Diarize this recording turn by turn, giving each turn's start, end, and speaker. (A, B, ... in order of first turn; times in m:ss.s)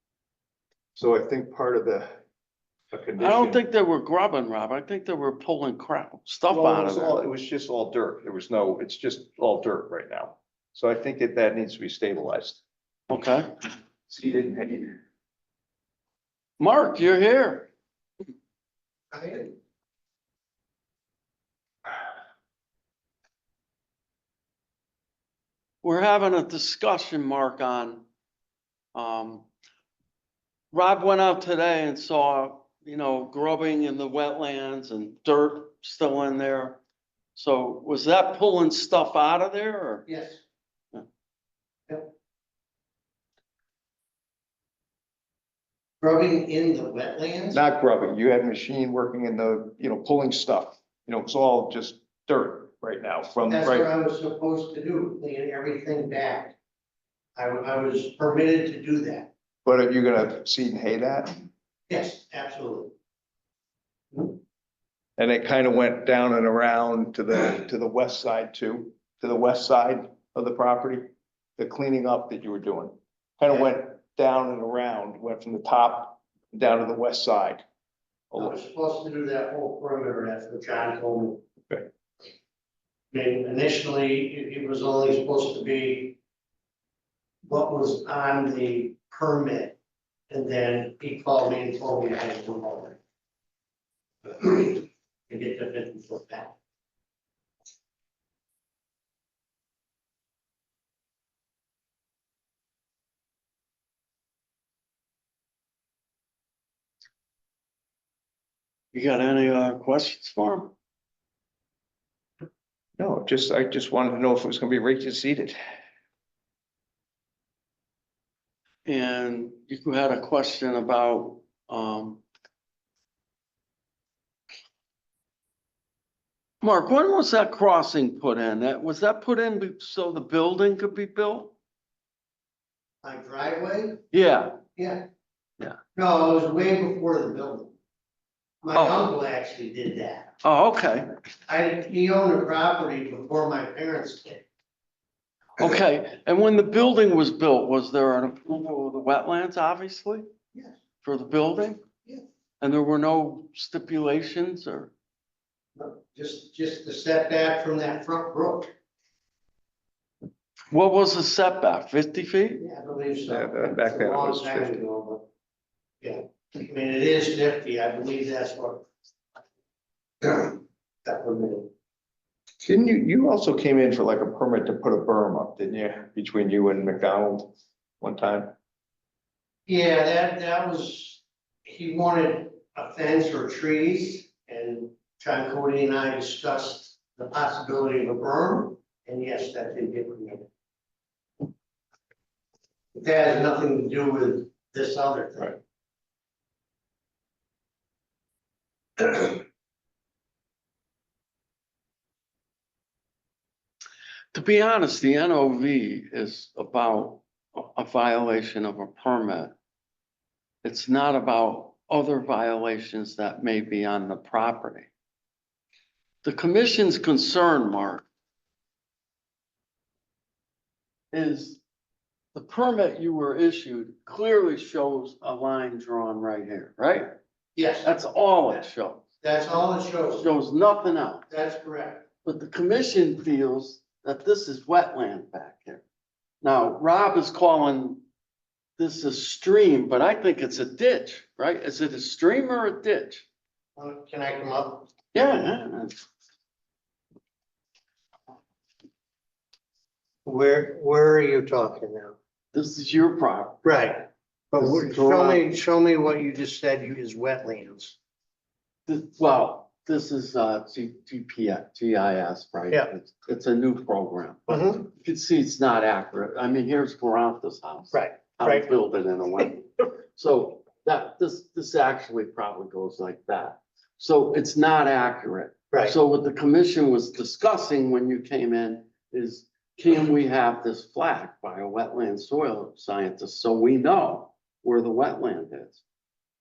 0:01.0-0:02.2 A
0:02.9-0:03.6 A
0:03.2-0:07.2 B
0:06.5-0:12.6 A
0:13.1-0:13.5 B
0:14.1-0:15.0 A
0:16.6-0:17.7 B
0:19.1-0:19.5 C
0:25.8-0:28.0 B
0:29.0-0:29.5 B
0:30.7-0:36.8 B
0:37.4-0:40.1 B
0:40.1-0:40.4 C
0:46.0-0:47.6 C
0:47.5-0:53.9 A
0:53.5-0:56.6 C
0:57.4-0:59.3 C
0:59.6-1:01.4 A
1:01.9-1:02.9 C
1:04.1-1:04.4 C
1:05.2-1:17.6 A
1:18.4-1:21.4 C
1:23.1-1:26.2 C
1:27.5-1:29.8 C
1:30.3-1:33.0 C
1:34.2-1:36.6 C
1:48.9-1:50.7 B
1:53.0-1:55.6 A
1:58.9-2:02.2 B
2:06.6-2:11.5 B
2:13.0-2:14.0 C
2:14.1-2:14.6 B
2:14.8-2:15.1 C
2:16.0-2:17.7 C
2:18.6-2:20.4 C
2:18.7-2:19.1 B
2:20.4-2:21.2 B
2:21.5-2:24.5 C
2:25.6-2:30.3 B
2:31.0-2:31.8 B
2:32.6-2:34.9 B
2:35.8-2:38.7 C
2:40.7-2:42.6 B
2:42.6-2:45.3 C
2:43.3-2:44.8 A
2:46.0-2:48.8 C
2:50.2-2:51.7 C
2:52.6-2:58.5 A
2:59.7-3:10.5 C
3:13.0-3:15.6 C
3:24.3-3:29.5 B
3:30.6-3:34.9 B
3:36.2-3:38.1 B
3:41.1-3:41.6 B
3:42.4-3:47.2 B
3:47.6-3:47.9 C
3:47.8-3:49.0 B
3:49.2-3:50.3 C
3:50.2-3:51.3 B
3:51.3-3:52.1 C
3:52.2-3:55.8 B
3:56.4-3:58.0 B
3:58.8-4:03.2 B
4:03.8-4:04.9 C
4:05.1-4:06.1 B
4:10.2-4:12.2 C
4:12.5-4:13.6 B
4:13.6-4:18.0 C
4:14.6-4:15.4 B
4:18.9-4:45.8 B
4:24.5-4:24.9 C
4:27.9-4:28.7 C